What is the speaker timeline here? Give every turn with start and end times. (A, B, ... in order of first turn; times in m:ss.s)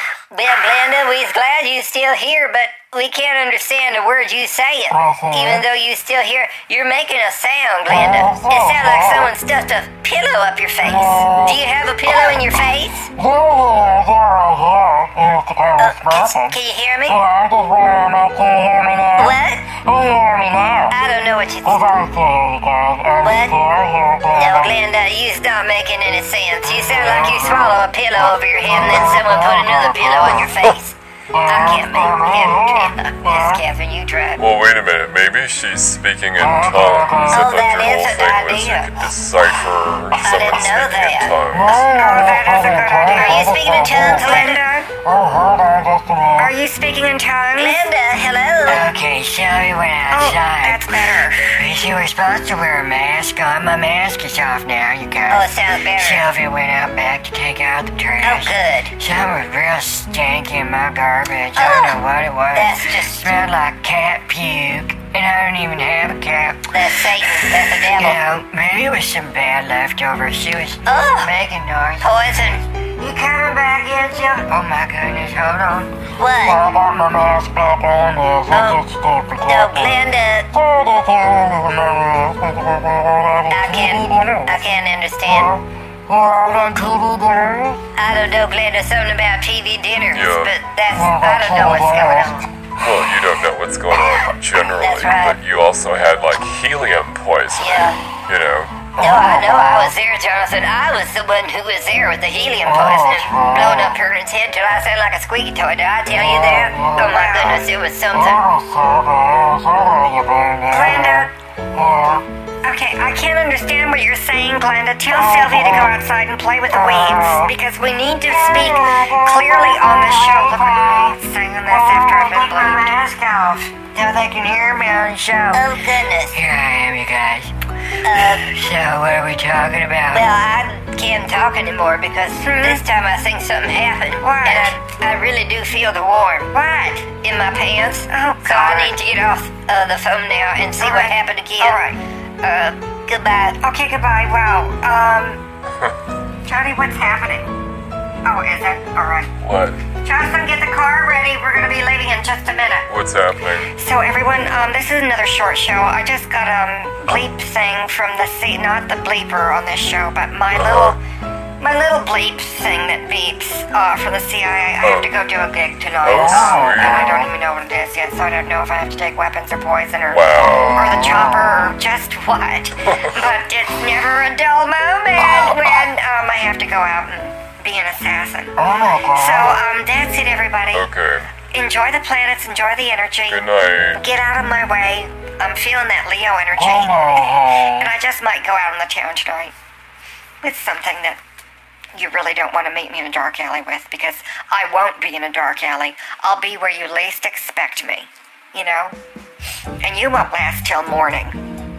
0:00.3-0:13.1 A
0:04.9-0:05.6 B
0:07.9-0:09.3 B
0:10.8-0:12.6 B
0:13.2-0:21.0 B
0:15.8-0:17.2 A
0:19.2-0:19.7 A
0:20.9-0:21.8 A
0:21.6-0:24.8 B
0:23.2-0:23.6 A
0:24.3-0:34.4 A
0:26.6-0:30.8 B
0:31.3-0:33.6 B
0:34.4-0:41.8 C
0:36.4-0:37.6 B
0:37.3-0:39.1 A
0:40.2-0:41.8 A
0:41.5-0:46.6 B
0:41.9-0:43.6 D
0:43.1-0:44.6 A
0:44.1-0:44.9 D
0:46.4-0:47.8 D
0:47.6-0:48.9 A
0:48.6-1:12.1 E
0:50.1-0:51.6 D
0:55.3-0:56.3 A
0:58.2-0:59.0 A
1:01.6-1:02.0 A
1:02.5-1:03.4 A
1:06.7-1:08.2 A
1:10.8-1:11.4 A
1:12.0-1:12.6 A
1:13.0-1:16.0 E
1:16.2-1:16.6 A
1:16.3-1:24.7 B
1:18.5-1:18.8 A
1:19.4-1:20.5 A
1:23.5-1:25.5 A
1:25.3-1:27.8 B
1:28.0-1:32.5 A
1:30.1-1:30.6 C
1:30.9-1:32.5 B
1:32.8-1:38.9 C
1:34.8-1:35.4 A
1:37.6-1:38.0 A
1:39.0-1:48.4 A
1:39.0-1:39.9 B
1:42.6-1:44.0 B
1:46.1-1:52.3 B
1:47.0-1:47.6 D
1:50.7-1:51.3 D
1:52.6-2:02.9 D
1:55.1-1:56.0 B
1:56.7-1:57.6 B
1:58.3-2:02.1 B
2:02.3-2:05.6 E
2:02.7-2:03.0 B
2:05.5-2:06.4 A
2:06.3-2:07.5 E
2:08.0-2:08.5 A
2:08.2-2:10.3 E
2:10.1-2:16.5 A
2:12.4-2:12.8 D
2:14.2-2:14.8 D
2:16.5-2:17.1 D
2:17.2-2:21.8 A
2:18.1-2:19.0 D
2:20.8-2:22.0 D
2:22.4-2:23.6 A
2:23.6-2:25.4 D
2:26.4-2:27.6 D
2:28.2-2:29.3 D
2:29.4-2:29.8 C
2:30.0-2:32.9 D
2:32.9-2:33.7 C
2:33.7-2:41.0 D
2:40.5-2:41.0 C
2:41.6-2:58.6 D
2:44.8-2:45.2 C
2:46.0-2:47.1 C
2:46.1-2:47.3 B
2:50.1-2:50.8 C
2:50.4-2:51.7 B
2:52.8-2:53.3 C
2:55.2-2:55.8 B
2:58.6-2:59.6 B
2:59.1-3:00.9 D
3:00.7-3:01.3 C
3:01.5-3:09.5 D
3:03.3-3:04.0 C
3:06.5-3:07.9 B
3:10.4-3:11.2 D
3:12.0-3:19.0 D
3:19.8-3:21.4 D